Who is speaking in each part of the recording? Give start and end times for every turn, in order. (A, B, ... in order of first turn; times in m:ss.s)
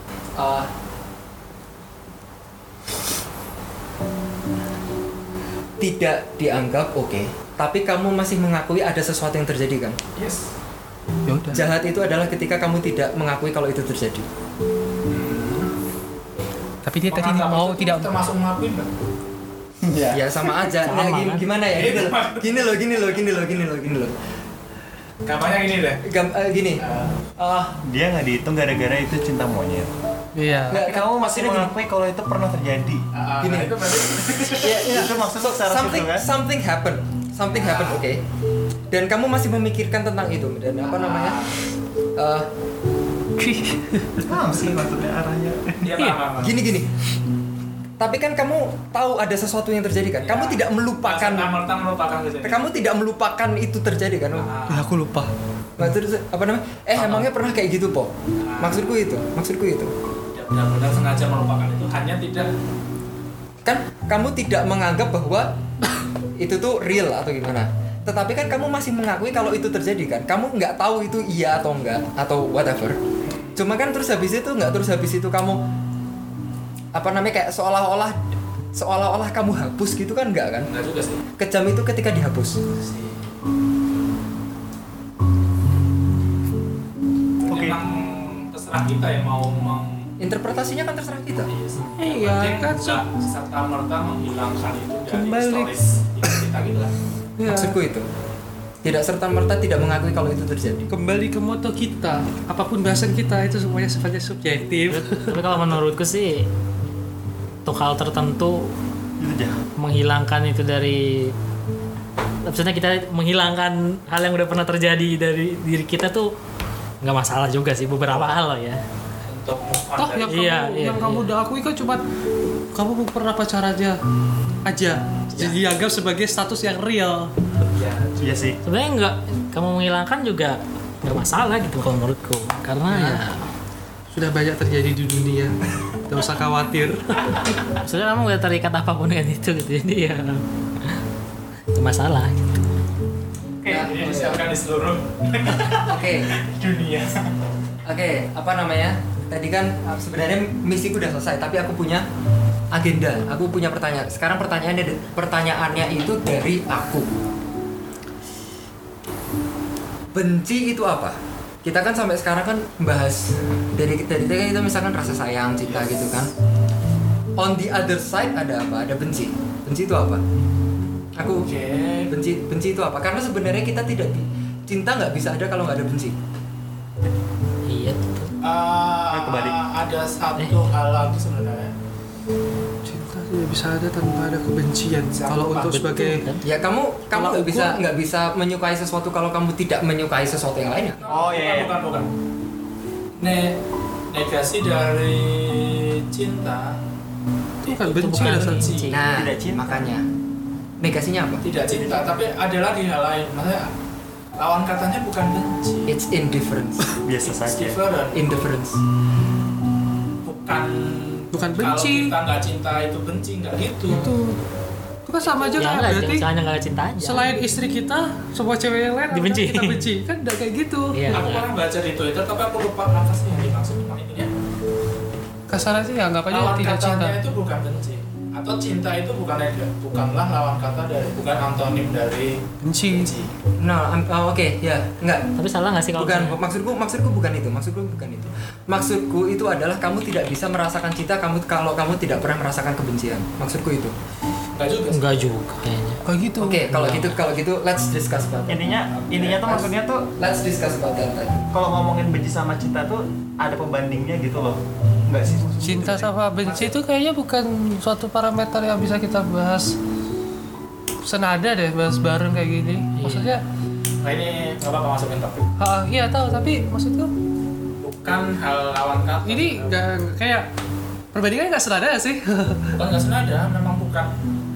0:00.4-0:00.7 A
0:05.8-0:10.0 A
0:10.2-0:10.5 B
0:11.3-0:11.7 C
0:11.5-0:14.3 A
0:15.1-0:15.7 B
0:16.8-0:18.2 C
0:17.1-0:18.9 B
0:19.9-0:20.2 D
0:20.1-0:24.2 A
0:20.8-0:21.5 E
0:21.7-0:23.5 B
0:25.3-0:26.0 B
0:26.0-0:26.8 A
0:26.8-0:27.3 B
0:27.4-0:27.8 A
0:27.8-0:29.9 D
0:30.4-0:30.8 C
0:30.7-0:31.7 A
0:30.7-0:33.0 D
0:33.1-0:34.9 B
0:33.4-0:33.7 A
0:34.3-0:36.3 D
0:34.5-0:38.2 A
0:37.5-0:38.0 B
0:38.9-0:41.4 A
0:40.8-0:41.6 B
0:42.2-0:42.5 A
0:43.4-0:44.1 C
0:44.2-0:45.8 D
0:45.8-0:46.7 B
0:46.4-0:46.9 A
0:48.0-0:51.5 A
0:50.2-0:52.7 B
0:52.4-0:54.5 A
0:54.3-0:54.9 B
0:54.7-0:55.3 C
0:55.8-0:59.9 A
0:57.0-0:57.3 B
0:58.4-0:59.0 B
1:00.3-1:02.5 B
1:03.6-1:05.5 A
1:06.4-1:13.0 A
1:13.2-1:13.6 B
1:13.6-1:15.6 A
1:17.0-1:18.2 A
1:18.8-1:20.7 A
1:20.7-1:21.2 B
1:21.4-1:22.6 A
1:22.8-1:23.4 B
1:27.4-1:30.1 B
1:27.5-1:27.8 D
1:30.2-1:31.5 A
1:31.5-1:36.9 B
1:32.0-1:33.0 C
1:35.1-1:36.4 C
1:37.4-1:37.8 C
1:37.4-1:38.0 A
1:38.8-1:40.9 A
1:40.9-1:45.4 C
1:44.9-1:46.5 E
1:47.7-1:48.7 E
1:49.2-1:49.6 D
1:49.8-1:51.3 E
1:52.5-1:56.3 E
1:57.0-1:58.8 E
1:59.2-2:00.6 B
2:00.0-2:02.0 C
2:00.3-2:01.3 E
2:02.7-2:04.0 C
2:04.7-2:07.3 C
2:05.3-2:05.6 B
2:07.7-2:08.5 B
2:08.2-2:08.6 D
2:08.6-2:13.4 E
2:12.9-2:13.2 C
2:14.1-2:15.5 C
2:16.1-2:17.2 C
2:17.7-2:21.0 E
2:21.7-2:22.6 E
2:23.6-2:27.3 B
2:23.7-2:24.5 A
2:25.8-2:26.3 A
2:27.9-2:32.0 A
2:32.7-2:37.1 A
2:40.1-2:46.3 A
2:45.6-2:46.2 B
2:47.4-2:50.2 A
2:51.2-2:51.5 A
2:51.4-2:52.1 B
2:52.1-2:56.2 A
2:57.7-2:58.3 E
2:58.4-3:01.7 B
2:59.1-2:59.6 D
3:02.8-3:06.2 C
3:05.1-3:06.0 B
3:05.9-3:06.4 E
3:06.4-3:11.0 A
3:07.1-3:07.8 C
3:10.8-3:12.1 B
3:11.1-3:11.7 D
3:13.2-3:13.6 B
3:14.1-3:16.8 B
3:17.6-3:18.7 C
3:17.7-3:19.0 B
3:17.8-3:19.0 E
3:18.9-3:20.0 A
3:19.1-3:19.9 D
3:20.8-3:22.2 A
3:21.4-3:23.7 B
3:24.4-3:25.9 B
3:25.9-3:26.9 A
3:27.0-3:27.8 D
3:27.2-3:28.2 B
3:28.1-3:28.8 A
3:30.2-3:34.1 B
3:31.3-3:32.1 C
3:33.9-3:34.4 C
3:35.1-3:36.2 C
3:35.3-3:35.6 B
3:35.6-3:37.3 E
3:37.0-3:41.2 C
3:39.1-3:39.8 E
3:40.9-3:41.5 E
3:41.1-3:44.3 B
3:45.5-3:47.2 C
3:46.3-3:53.3 B
3:52.6-3:53.2 C
3:53.6-3:55.2 A
3:55.4-3:56.4 E
3:55.9-4:03.9 A
4:04.6-4:05.2 B
4:04.9-4:06.0 E
4:06.1-4:07.1 C
4:06.4-4:08.6 A
4:08.5-4:10.1 D
4:08.9-4:09.5 B
4:09.3-4:11.4 A
4:11.5-4:16.1 D
4:15.6-4:19.8 C
4:16.4-4:16.7 B
4:21.1-4:23.4 C
4:23.0-4:23.3 E
4:24.0-4:25.5 B
4:25.6-4:27.1 C
4:27.8-4:29.9 B
4:29.3-4:30.4 C
4:31.1-4:32.8 C
4:32.8-4:34.1 B